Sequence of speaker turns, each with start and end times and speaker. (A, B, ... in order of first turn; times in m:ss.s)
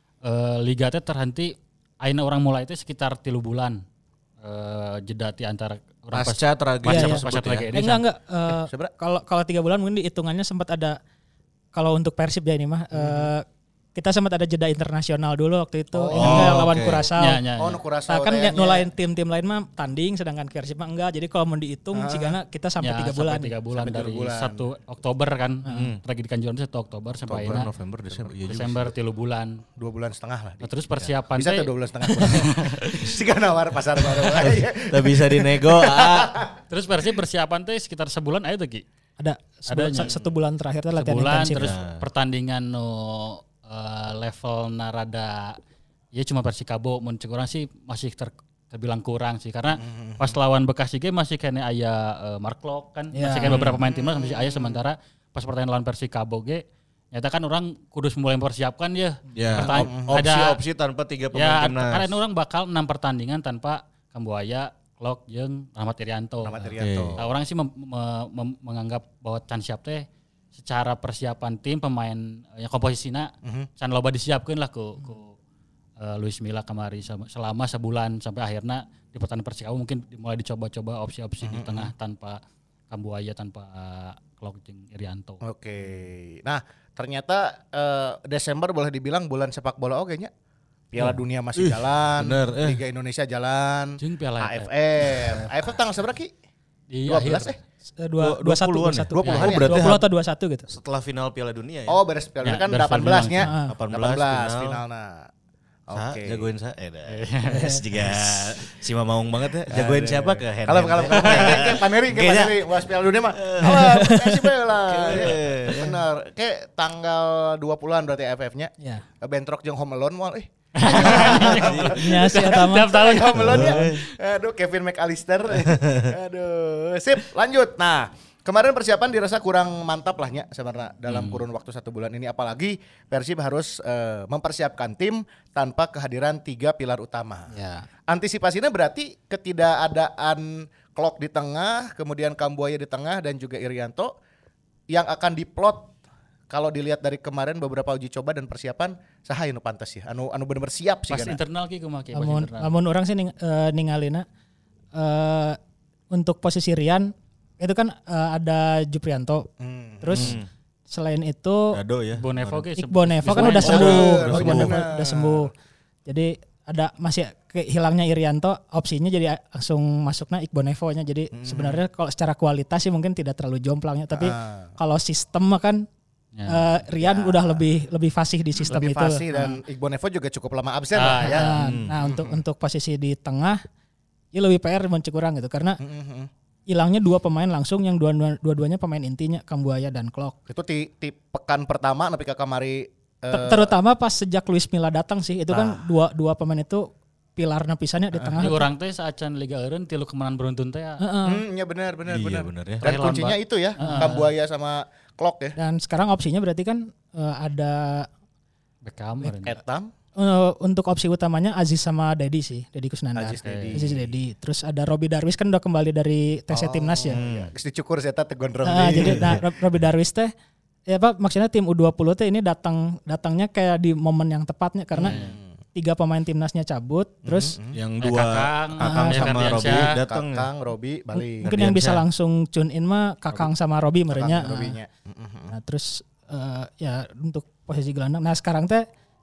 0:00.2-0:03.8 A
0:04.4-0:08.0 A
0:06.1-0:07.7 B
0:06.9-0:11.0 C
0:08.5-0:08.9 D
0:11.7-0:17.4 C
0:12.9-0:13.3 D
0:15.9-0:16.7 D
0:16.1-0:17.1 B
0:17.2-0:17.8 A
0:17.6-0:18.8 D
0:18.1-0:23.5 C
0:21.9-0:22.4 D
0:22.8-0:27.7 A
0:23.7-0:24.7 D
0:25.7-0:26.0 B
0:27.3-0:28.4 D
0:27.3-0:28.9 B
0:28.5-0:29.6 A
0:29.8-0:30.7 D
0:30.6-0:33.1 A
0:31.3-0:36.5 D
0:34.3-0:36.4 B
0:36.7-0:38.8 A
0:39.2-0:41.7 C
0:39.7-0:40.1 A
0:40.0-0:40.3 B
0:41.0-0:45.6 A
0:41.6-0:42.0 B
0:46.1-1:00.6 A
0:49.8-0:50.4 D
0:53.1-0:53.6 C
0:53.5-0:53.8 B
0:53.5-0:54.8 D
0:59.4-1:02.1 B
0:59.6-1:00.2 D
1:01.3-1:15.4 A
1:06.4-1:07.3 D
1:06.8-1:07.2 B
1:16.0-1:22.4 A
1:21.4-1:21.9 D
1:22.9-1:25.4 A
1:25.4-1:30.3 D
1:30.9-1:36.3 D
1:31.0-1:32.8 B
1:34.0-1:35.4 A
1:36.9-1:37.6 A
1:37.1-1:37.6 D
1:38.0-1:40.7 C
1:38.2-1:40.0 B
1:39.1-1:40.0 D
1:39.2-1:39.5 A
1:40.7-1:42.0 B
1:41.9-1:45.3 D
1:42.4-1:43.4 A
1:43.4-1:43.7 C
1:43.4-1:44.8 B
1:45.9-1:46.4 D
1:45.9-1:53.9 B
1:47.1-1:47.8 A
1:47.5-1:47.8 C
1:49.7-2:17.5 D
1:51.1-1:51.7 A
1:53.6-1:54.4 C
1:54.8-1:56.0 B
1:58.8-1:59.0 C
2:00.8-2:04.0 A
2:01.0-2:02.0 B
2:01.9-2:03.2 C
2:03.4-2:04.0 B
2:05.7-2:06.1 B
2:11.1-2:11.4 A
2:17.5-2:17.9 C
2:18.1-2:24.2 D
2:24.9-2:25.9 D
2:26.5-2:31.4 D
2:31.1-2:32.7 A
2:32.1-2:34.2 C
2:34.9-2:35.6 C
2:36.1-2:39.5 C
2:39.6-2:40.4 D
2:40.0-2:40.4 C
2:40.1-2:40.5 B
2:40.9-2:41.8 C
2:41.7-2:42.6 B
2:42.1-2:44.1 A
2:42.8-2:45.5 C
2:43.3-2:45.5 D
2:43.5-2:44.8 B
2:46.1-2:55.9 C
2:51.3-2:51.8 D
2:54.1-2:54.7 D
2:56.4-2:56.7 A
2:56.5-2:59.6 C
2:57.0-2:57.6 D
2:58.7-3:02.4 D
3:00.9-3:01.6 A
3:01.2-3:03.6 C
3:01.6-3:02.0 B
3:04.3-3:05.8 C
3:05.8-3:06.3 D
3:06.7-3:10.4 C
3:10.5-3:13.8 D
3:13.3-3:18.7 C
3:15.5-3:15.8 D
3:18.1-3:18.5 D
3:18.4-3:21.0 A
3:21.0-3:21.4 C
3:21.2-3:25.6 D
3:22.1-3:22.9 B
3:22.8-3:24.3 A
3:23.8-3:24.2 C
3:25.6-3:28.1 C
3:28.8-3:29.6 A
3:29.2-3:29.5 C
3:29.4-3:29.9 D
3:30.2-3:37.2 C
3:33.2-3:34.1 D
3:33.4-3:33.8 A
3:36.5-3:39.4 D
3:37.1-3:37.5 B
3:38.6-3:40.3 C
3:39.0-3:39.4 B
3:40.9-3:45.2 C
3:44.9-3:45.5 D
3:45.8-3:47.6 C
3:47.2-3:47.8 D
3:47.7-3:50.5 B
3:48.0-3:50.0 A
3:48.8-3:49.3 C
3:49.6-3:51.6 D
3:51.1-3:54.8 C
3:51.4-3:52.0 B
3:54.1-3:55.5 D
3:55.5-3:58.9 C